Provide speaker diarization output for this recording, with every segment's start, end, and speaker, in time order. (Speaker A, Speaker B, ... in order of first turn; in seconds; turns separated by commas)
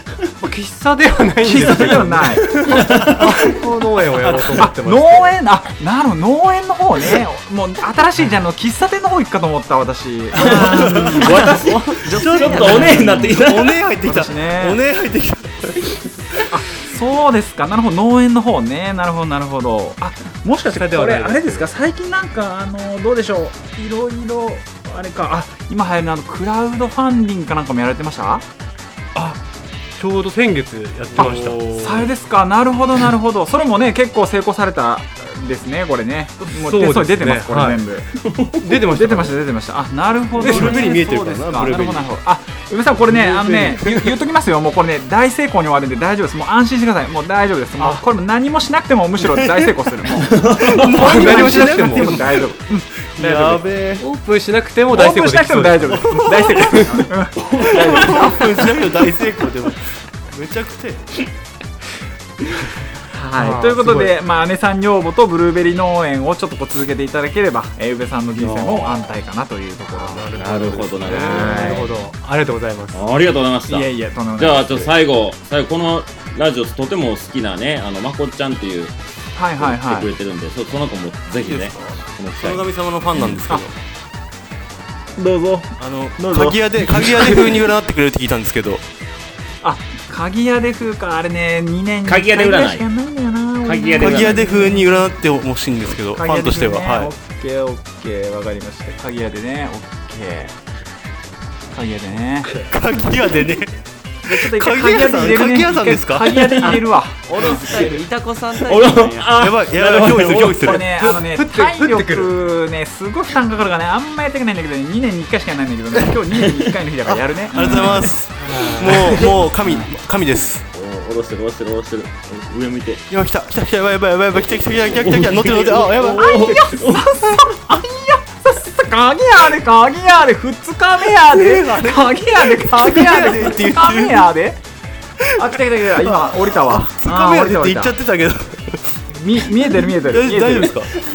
Speaker A: 0.4-5.4, Speaker B: 1.4-2.8, Speaker C: 2.7-3.6, Speaker B: 4.5-13.4, Speaker C: 10.3-13.8, Speaker D: 10.5-11.5, Speaker D: 12.1-16.4, Speaker B: 14.1-14.8, Speaker B: 16.5-28.4, Speaker A: 20.7-21.7, Speaker A: 30.0-32.1, Speaker D: 31.1-31.6, Speaker B: 31.2-38.1, Speaker A: 36.5-37.8, Speaker C: 38.2-38.6, Speaker A: 38.6-39.4, Speaker B: 38.8-52.9, Speaker D: 40.4-42.1, Speaker A: 40.4-40.9, Speaker A: 43.0-44.0, Speaker A: 47.8-48.0, Speaker D: 49.3-49.7, Speaker C: 50.1-50.9, Speaker D: 50.5-52.5, Speaker A: 50.9-52.3, Speaker D: 53.2-54.0, Speaker A: 53.2-57.1, Speaker B: 54.9-58.7, Speaker D: 56.0-56.6, Speaker C: 57.4-58.3, Speaker D: 57.7-61.0, Speaker B: 63.1-72.1, Speaker A: 63.4-64.2, Speaker C: 68.5-69.0, Speaker A: 70.0-73.0, Speaker C: 70.3-71.9, Speaker D: 70.6-71.3, Speaker C: 72.9-78.9, Speaker B: 73.7-74.9, Speaker B: 79.4-80.1, Speaker C: 79.6-82.7, Speaker D: 81.5-81.8, Speaker D: 82.4-83.8, Speaker B: 85.2-87.4, Speaker D: 85.8-88.8, Speaker B: 89.6-95.1, Speaker C: 92.1-92.8, Speaker C: 93.6-94.4, Speaker D: 94.0-97.1, Speaker B: 96.1-100.5, Speaker B: 101.7-102.6, Speaker D: 102.7-106.6, Speaker B: 104.3-108.0, Speaker E: 107.3-109.3, Speaker C: 108.6-110.8, Speaker D: 109.3-110.9, Speaker B: 110.4-118.1, Speaker A: 110.7-112.3, Speaker D: 117.0-120.7, Speaker A: 117.7-119.4, Speaker B: 118.9-119.9, Speaker C: 120.7-123.0, Speaker D: 123.1-126.4, Speaker C: 124.8-127.5, Speaker B: 126.0-134.6, Speaker D: 131.3-134.3, Speaker B: 135.3-137.9, Speaker D: 135.9-139.0, Speaker B: 139.1-140.8, Speaker D: 140.0-140.9